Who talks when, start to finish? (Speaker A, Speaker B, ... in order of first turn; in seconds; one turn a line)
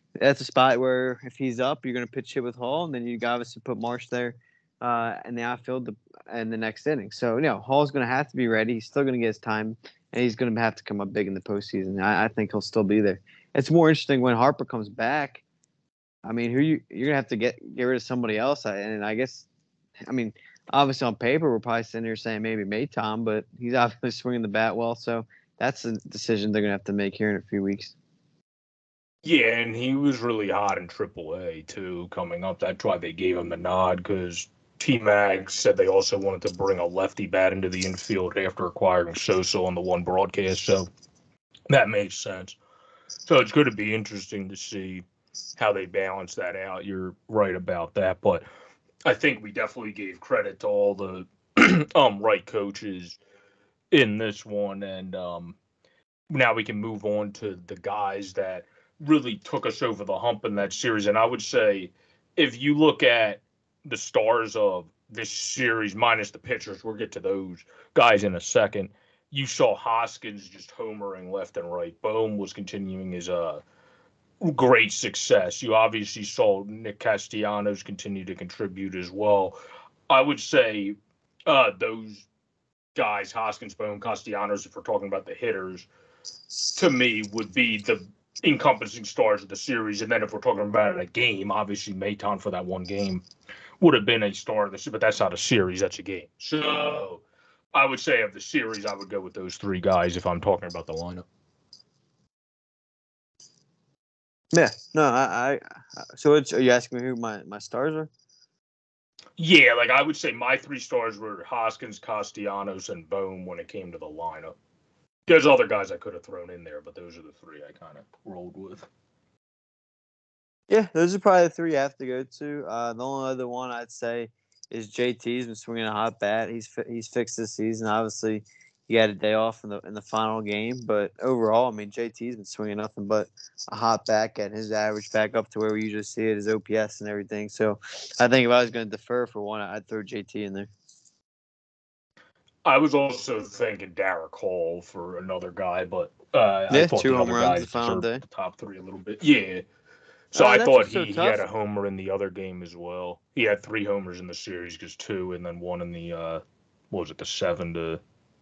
Speaker A: 0.2-15.4
Speaker A: 16.2-19.5
Speaker A: 20.1-27.9
Speaker B: 29.2-40.9
Speaker B: 41.7-42.6
Speaker B: 43.3-45.0
Speaker B: 45.6-48.5
Speaker B: 49.0-53.2
Speaker B: 53.9-55.6
Speaker B: 56.3-73.6
Speaker B: 74.4-79.6
Speaker B: 80.1-82.3
Speaker B: 83.0-85.9
Speaker B: 86.7-93.2
Speaker B: 93.8-97.2
Speaker B: 97.7-101.2
Speaker A: 104.5-108.1
Speaker B: 109.4-114.5
Speaker B: 115.3-118.9
Speaker A: 120.7-140.7
Speaker B: 142.7-149.6
Speaker A: 146.7-148.2
Speaker B: 150.3-158.0
Speaker A: 150.3-151.4